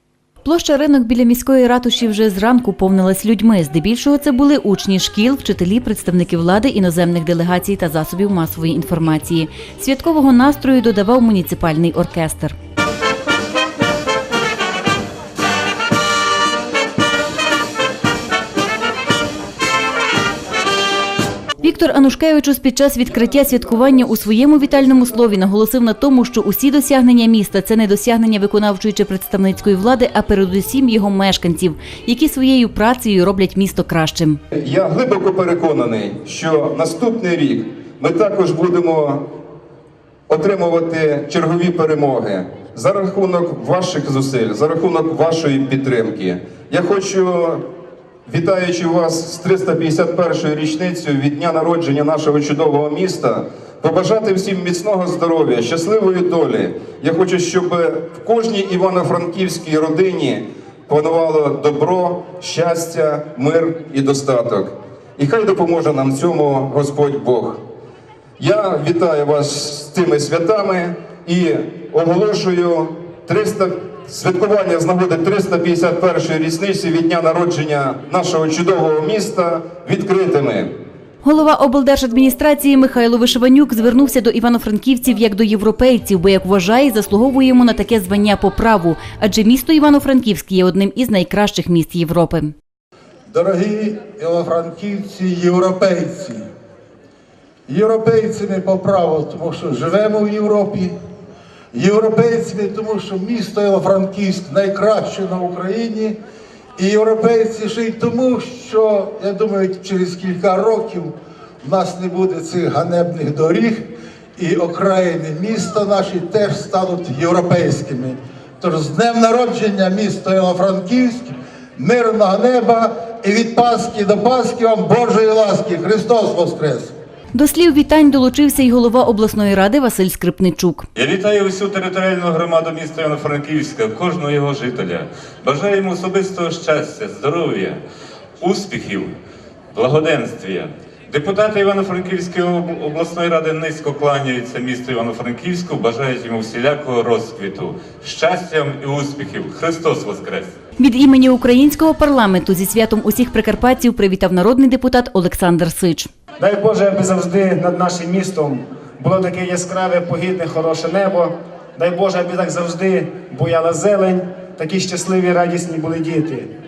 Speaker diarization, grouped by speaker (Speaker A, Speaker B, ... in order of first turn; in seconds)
Speaker A: 0.4-12.5, 21.6-34.4, 81.2-92.5, 127.3-130.8, 150.8-156.1
Speaker B: 34.6-39.3, 40.3-47.6, 48.2-67.6, 68.4-80.7
Speaker C: 93.3-96.4, 97.7-100.9, 101.7-106.2, 106.8-113.8, 114.4-126.9
Speaker D: 130.9-137.8, 138.4-139.1, 139.7-150.5
Speaker E: 156.4-166.5